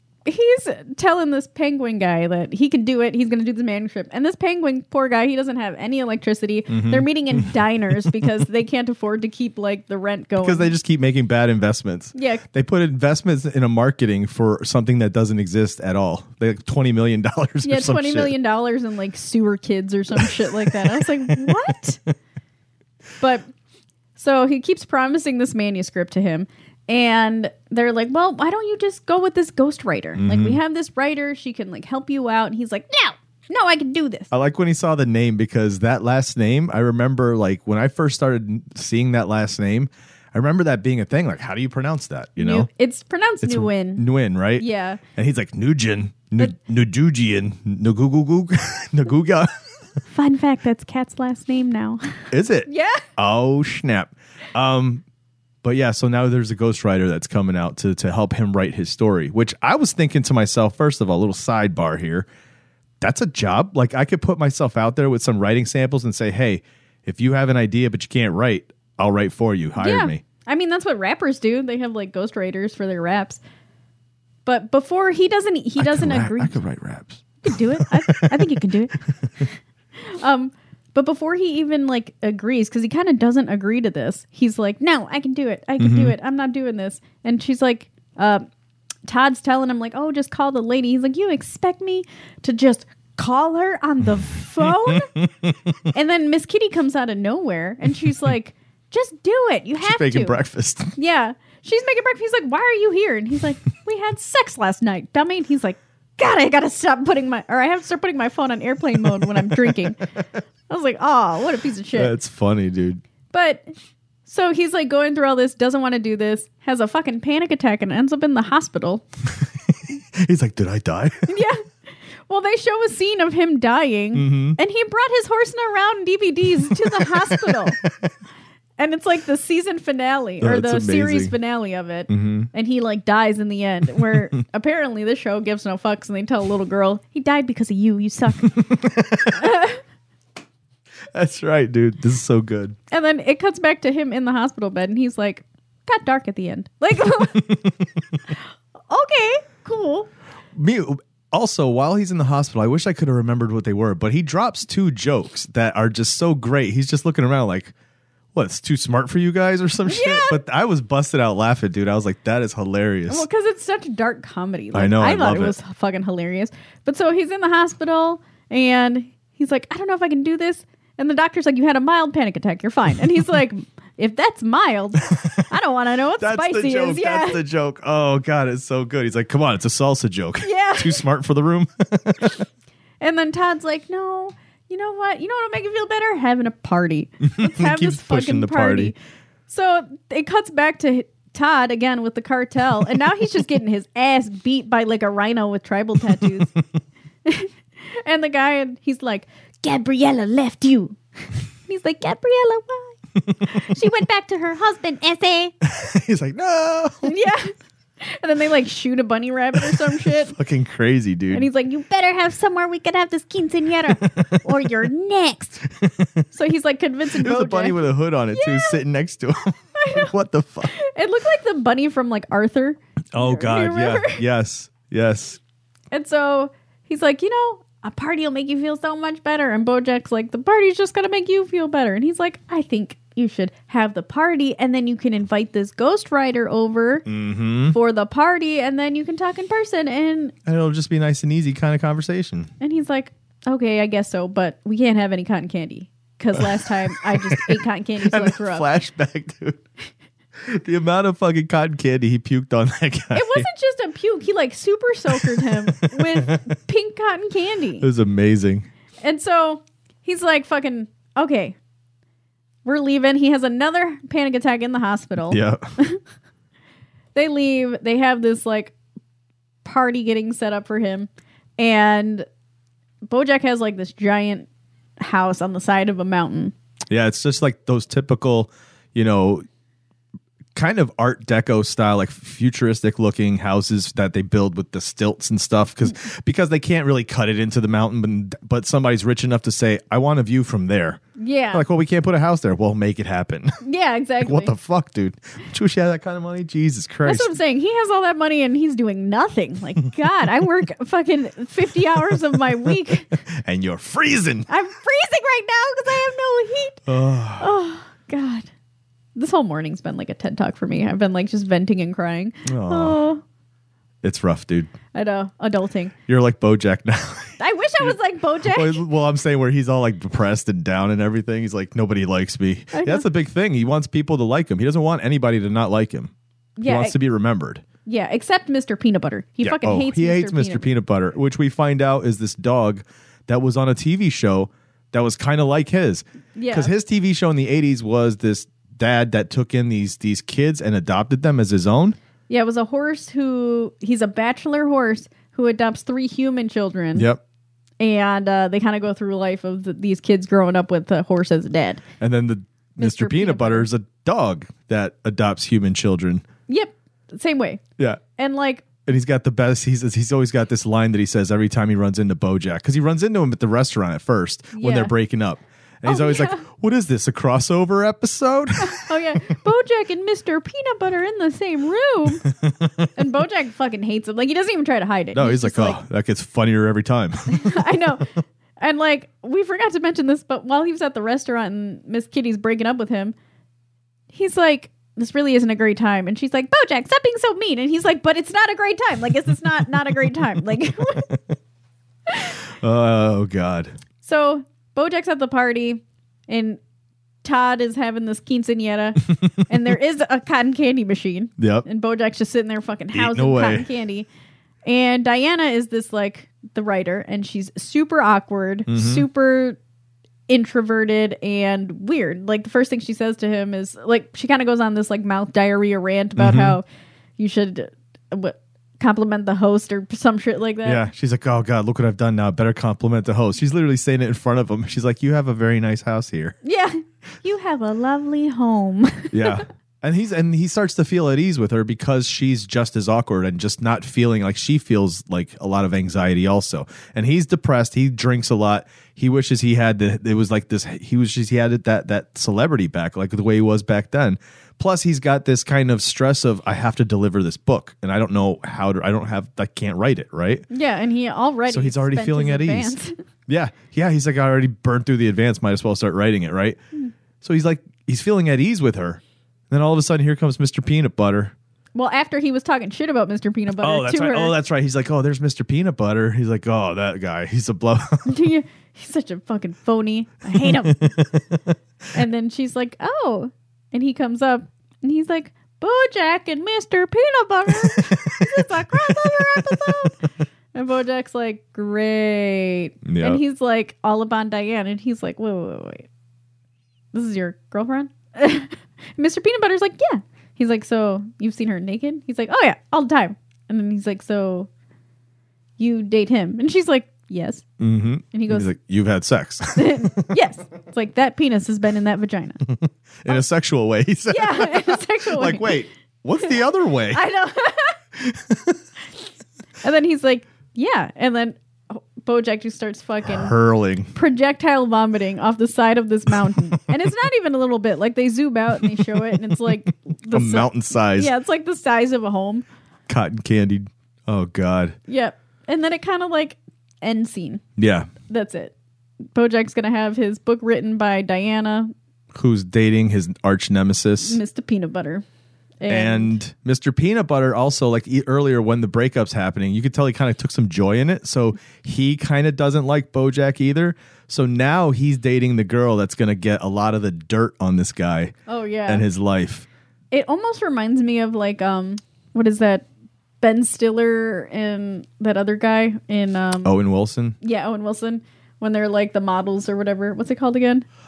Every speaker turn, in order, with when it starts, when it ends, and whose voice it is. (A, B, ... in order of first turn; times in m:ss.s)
0:00.2-0:10.7 A
0:06.7-0:07.5 B
0:10.4-0:18.3 B
0:12.1-0:12.4 A
0:17.6-0:22.0 A
0:20.2-0:21.5 B
0:24.2-0:34.3 A
0:30.2-0:30.6 B
0:34.3-0:42.7 B
0:42.4-0:44.0 A
0:43.4-0:49.5 B
0:44.6-0:45.0 A
0:50.1-0:53.0 A
0:52.3-0:55.0 B
0:55.6-1:02.3 B
1:03.0-1:10.2 B
1:09.8-1:13.4 A
1:14.4-1:16.6 A
1:15.8-1:19.4 B
1:17.4-1:28.4 A
1:25.8-1:26.1 B
1:29.0-1:35.1 A
1:34.6-1:35.7 B
1:35.9-1:40.4 A
1:39.8-1:40.9 B
1:41.0-1:50.0 A
1:50.7-1:52.1 A
1:51.9-1:53.0 B
1:53.3-1:53.7 A
1:54.2-1:59.0 A
2:00.1-2:01.3 B
2:01.3-2:01.7 A
2:02.3-2:07.8 A
2:04.1-2:04.6 B
2:06.7-2:08.1 B
2:08.8-2:18.5 A
2:10.4-2:11.3 B
2:12.1-2:12.5 B
2:18.4-2:19.5 B
2:19.3-2:19.8 A
2:21.1-2:22.8 B
2:22.9-2:27.5 A
2:27.3-2:28.2 B
2:28.9-2:30.1 A
2:30.5-2:37.7 B
2:38.3-2:43.2 B
2:39.8-2:40.4 A
2:43.1-2:57.4 A
2:44.7-2:45.6 B
2:55.1-2:55.5 B
2:56.2-3:02.4 B
3:00.4-3:01.0 A
3:03.0-3:09.0 A
3:07.2-3:08.9 B
3:09.5-3:16.5 A
3:17.2-3:25.5 A
3:23.2-3:23.7 B
3:25.6-3:27.1 B
3:27.0-3:30.3 A
3:30.2-3:31.5 B
3:31.3-3:35.6 A
3:33.9-3:34.4 B
3:35.7-3:36.3 B
3:36.3-3:37.8 A
3:37.1-3:40.7 B
3:38.3-3:38.8 A
3:39.8-3:40.1 A
3:40.7-3:44.2 A
3:43.1-3:45.4 B
3:45.9-3:57.0 A
3:57.0-3:57.8 B
3:57.7-4:00.3 A
4:00.4-4:02.5 B
4:02.6-4:08.7 A
4:07.1-4:09.6 B
4:10.4-4:13.5 B
4:13.1-4:17.8 A
4:15.2-4:16.4 B
4:17.8-4:18.7 B
4:19.0-4:21.6 A
4:22.6-4:26.0 A
4:25.3-4:25.6 B
4:27.1-4:28.7 A
4:29.6-4:32.2 A
4:33.0-4:34.5 A
4:35.0-4:36.5 A
4:36.9-4:39.4 B
4:40.5-4:51.0 B
4:51.2-4:51.6 A
4:51.5-4:53.6 B
4:53.6-4:54.5 A
4:54.2-4:57.3 B
4:57.0-5:03.1 A
5:03.2-5:04.5 B
5:04.5-5:06.8 A
5:06.8-5:07.5 B
5:07.4-5:08.5 A
5:09.1-5:13.2 A
5:12.4-5:13.0 B
5:14.0-5:14.7 B
5:14.9-5:15.9 A
5:16.1-5:26.1 B
5:17.4-5:18.8 A
5:22.7-5:23.0 A
5:26.6-5:27.0 A
5:26.6-5:27.6 B
5:27.8-5:30.7 A
5:29.4-5:42.0 B
5:36.4-5:36.7 A
5:42.3-5:47.1 A
5:46.9-5:47.2 B
5:47.8-5:51.8 A
5:52.0-5:56.2 B
5:52.8-5:53.7 A
5:56.5-5:57.6 A
5:58.2-5:58.7 A
5:58.8-6:08.9 B
6:04.5-6:04.9 A
6:05.8-6:06.4 A
6:08.6-6:12.2 A
6:12.2-6:12.9 B
6:12.9-6:15.8 A
6:15.1-6:17.7 B
6:17.3-6:23.1 A
6:24.1-6:31.2 A
6:32.1-6:32.4 A
6:32.6-6:33.7 B
6:34.0-6:36.6 A
6:37.2-6:44.1 A
6:41.4-6:41.6 B
6:42.9-6:43.7 B
6:44.6-6:49.6 A
6:48.7-6:49.0 B
6:50.3-6:56.6 A
6:56.2-6:56.6 B
6:57.2-7:00.8 A
7:00.6-7:06.3 B
7:06.4-7:09.4 A
7:09.1-7:30.4 B
7:30.5-7:32.9 A
7:31.5-7:32.7 B
7:33.3-7:36.6 B
7:37.2-7:41.3 B
7:41.7-7:44.3 A
7:43.6-7:48.1 B
7:48.1-7:50.8 A
7:50.4-7:51.5 B
7:51.9-8:05.8 A
7:57.5-7:59.9 B
8:02.8-8:03.2 B
8:06.9-8:14.5 A
8:15.6-8:17.4 A
8:17.6-8:20.1 B
8:18.1-8:18.5 A
8:19.5-8:22.4 A
8:22.5-8:27.0 B
8:24.1-8:25.6 A
8:26.9-8:27.8 A
8:28.0-8:28.6 B
8:29.6-8:33.3 A
8:33.0-8:33.9 B
8:33.9-8:42.4 A
8:38.7-8:39.6 B
8:40.1-8:41.1 B
8:42.9-8:44.8 B
8:44.9-8:47.4 A
8:47.6-8:47.9 B
8:48.0-8:48.5 A
8:49.1-8:51.7 A
8:52.1-8:54.2 B
8:54.0-8:55.0 A
8:55.6-8:56.2 A
8:55.7-9:08.1 B
9:08.3-9:08.8 A
9:08.7-9:09.5 B
9:09.9-9:12.7 A
9:13.2-9:16.5 A
9:16.4-9:17.1 B
9:17.2-9:20.6 A